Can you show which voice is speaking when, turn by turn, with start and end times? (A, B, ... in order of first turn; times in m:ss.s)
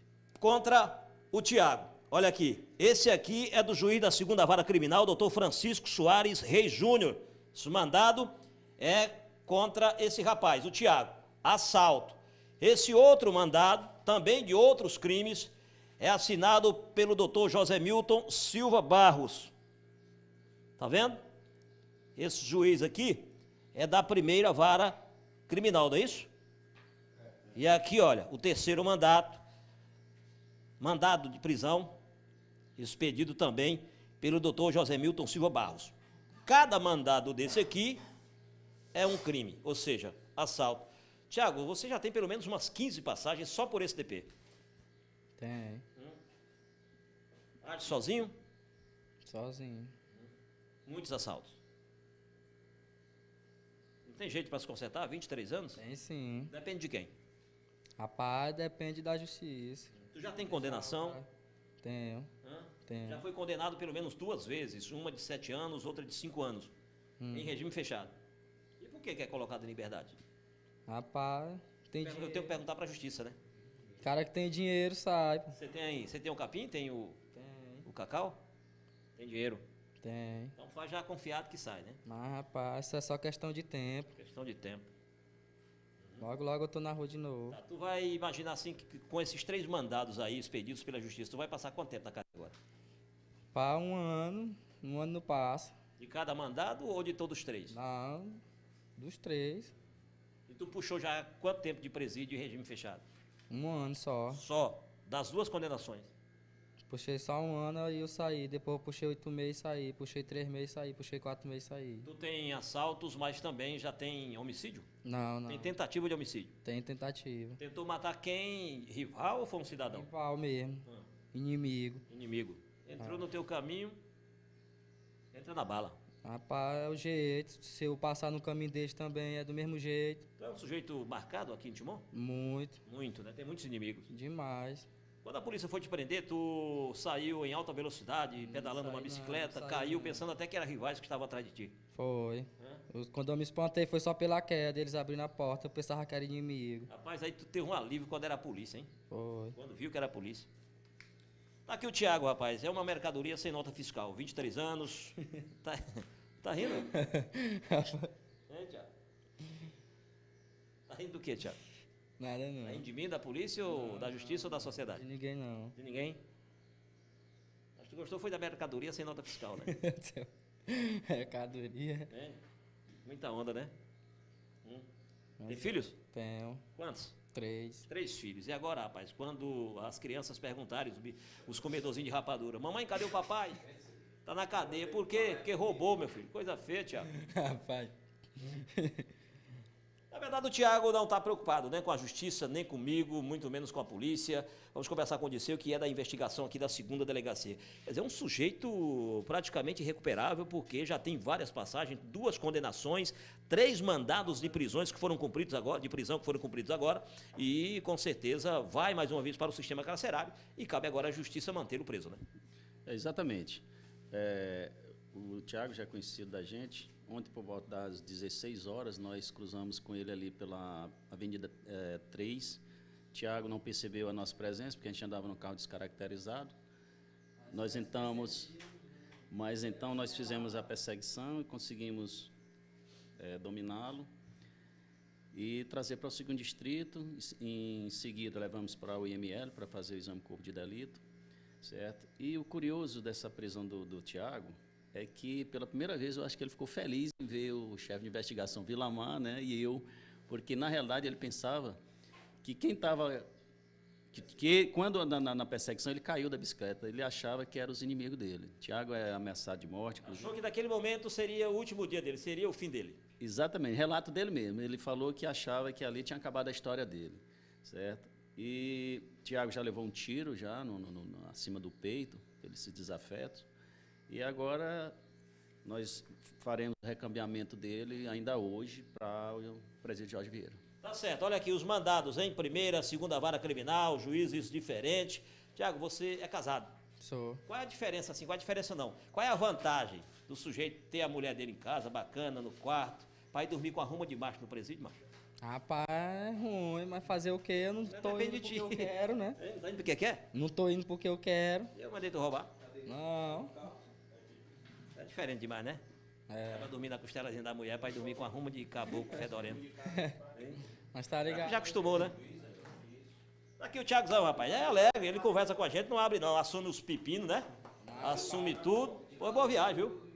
0:00.4-0:19.5 A
0:20.8-0:21.2 A
0:22.2-0:26.3 A
0:27.5-0:29.4 A
0:30.8-0:31.9 A
0:32.8-0:35.9 A
0:36.4-0:38.0 A
0:38.9-0:44.3 A
0:45.4-0:45.8 B
0:47.6-0:48.3 A
0:49.2-0:49.9 B
0:50.8-0:51.6 A
0:54.0-0:55.8 A
0:55.8-0:56.5 B
0:56.5-0:57.1 A
0:58.0-0:59.9 B
1:00.0-1:01.2 A
1:00.4-1:01.3 B
1:01.8-1:02.3 B
1:02.4-1:06.7 A
1:02.9-1:03.2 B
1:07.2-1:07.5 B
1:07.3-1:08.1 A
1:08.8-1:10.2 A
1:10.9-1:12.6 B
1:12.0-1:13.4 A
1:14.0-1:15.5 B
1:15.5-1:17.2 A
1:17.3-1:17.8 B
1:17.8-1:18.4 A
1:19.1-1:19.6 A
1:20.0-1:20.5 B
1:20.6-1:22.0 A
1:22.0-1:24.1 B
1:24.1-1:24.9 A
1:26.2-1:27.6 B
1:27.5-1:32.6 A
1:33.5-1:35.7 B
1:36.0-1:37.8 A
1:37.7-1:38.4 B
1:39.0-1:39.7 B
1:40.5-1:43.0 A
1:43.5-1:44.4 B
1:44.3-1:46.1 A
1:46.9-1:52.1 B
1:52.0-1:54.9 A
1:55.0-1:55.7 B
1:55.5-1:56.5 A
1:56.6-1:57.6 B
1:57.6-2:00.1 A
1:59.9-2:02.0 B
2:02.1-2:04.0 A
2:05.3-2:06.0 A
2:06.2-2:10.2 B
2:10.4-2:12.0 A
2:12.1-2:12.8 B
2:12.8-2:14.1 A
2:14.1-2:14.9 B
2:15.2-2:21.7 A
2:18.4-2:20.2 B
2:21.9-2:26.9 B
2:26.9-2:28.9 A
2:29.1-2:29.6 B
2:29.5-2:30.5 A
2:31.6-2:36.9 A
2:36.9-2:38.1 B
2:38.5-2:38.9 A
2:40.9-2:41.6 A
2:42.2-2:42.8 B
2:42.6-2:45.0 A
2:43.7-2:45.7 B
2:45.7-2:46.2 A
2:47.8-2:49.7 A
2:49.6-2:52.1 B
2:52.1-2:52.4 A
2:53.0-2:53.7 A
2:55.4-2:56.6 B
2:55.4-2:55.9 A
2:56.8-2:57.2 A
2:57.3-2:57.8 B
2:57.9-3:03.6 A
3:04.2-3:07.1 A
3:07.1-3:09.1 B
3:10.1-3:32.2 A
3:32.8-3:42.6 C
3:43.1-3:46.5 C
3:47.4-3:48.6 B
3:47.5-3:48.5 C
3:49.3-3:52.3 C
3:53.2-3:54.1 C
3:55.3-4:01.0 C
4:01.6-4:11.8 C
4:12.4-4:13.3 C
4:14.1-4:20.3 C
4:20.0-4:23.0 A
4:23.2-4:33.5 C
4:34.1-4:34.9 C
4:35.6-4:40.6 C
4:40.8-4:46.7 A
4:47.0-4:47.4 B
4:47.4-4:55.0 A
4:55.4-4:59.4 B
4:57.9-5:00.3 A
5:00.3-5:01.7 B
5:01.7-5:02.5 A
5:02.8-5:03.6 B
5:04.9-5:05.8 A
5:06.3-5:06.7 B
5:06.5-5:09.7 A
5:09.8-5:10.2 B
5:10.3-5:10.6 A
5:10.9-5:11.8 B
5:11.2-5:12.2 A
5:13.6-5:20.0 A
5:17.8-5:18.5 B